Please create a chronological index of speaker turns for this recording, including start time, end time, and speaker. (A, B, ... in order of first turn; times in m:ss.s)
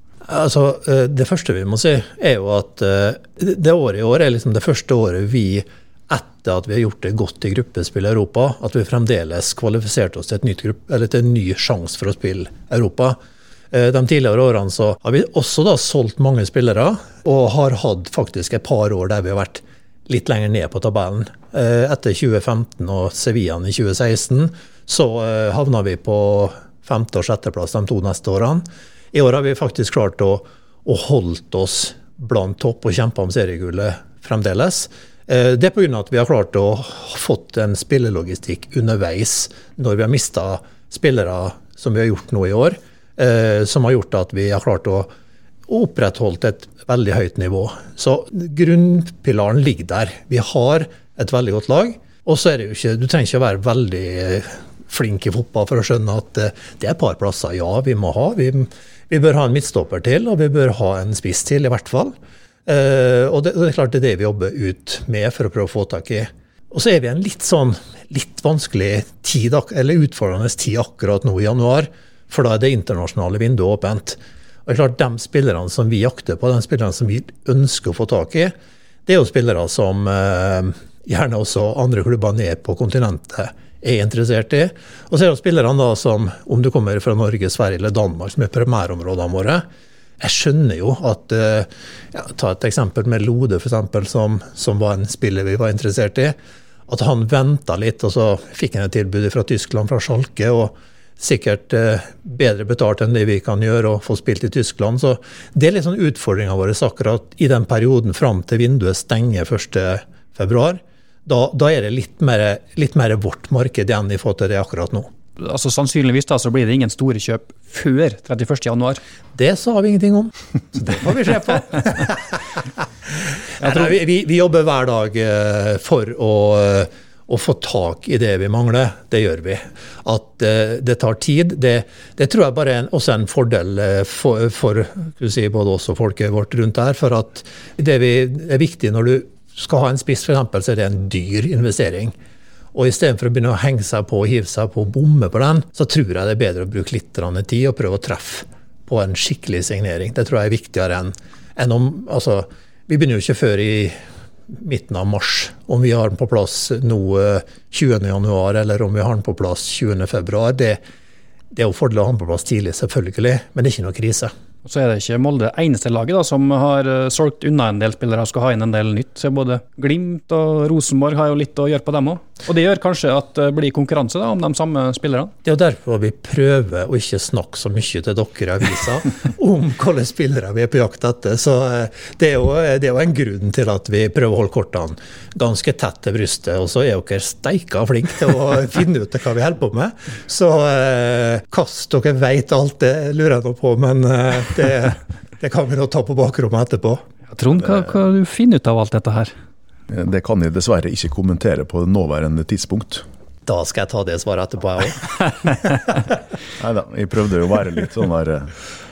0:00.3-0:13.2 A
0:13.7-0:45.1 A
0:45.7-1:02.1 A
1:02.6-1:18.5 A
1:19.0-1:29.6 A
1:30.2-1:36.4 A
1:36.9-1:55.1 A
1:55.4-1:59.0 B
1:59.3-2:02.4 A
2:03.6-2:22.1 A
2:22.7-2:34.0 A
2:34.5-2:40.8 A
2:41.5-2:44.3 A
2:44.6-2:55.3 B
2:55.4-3:17.0 A
3:17.3-3:19.3 B
3:19.9-3:23.0 C
3:23.4-3:25.1 A
3:26.6-3:28.5 C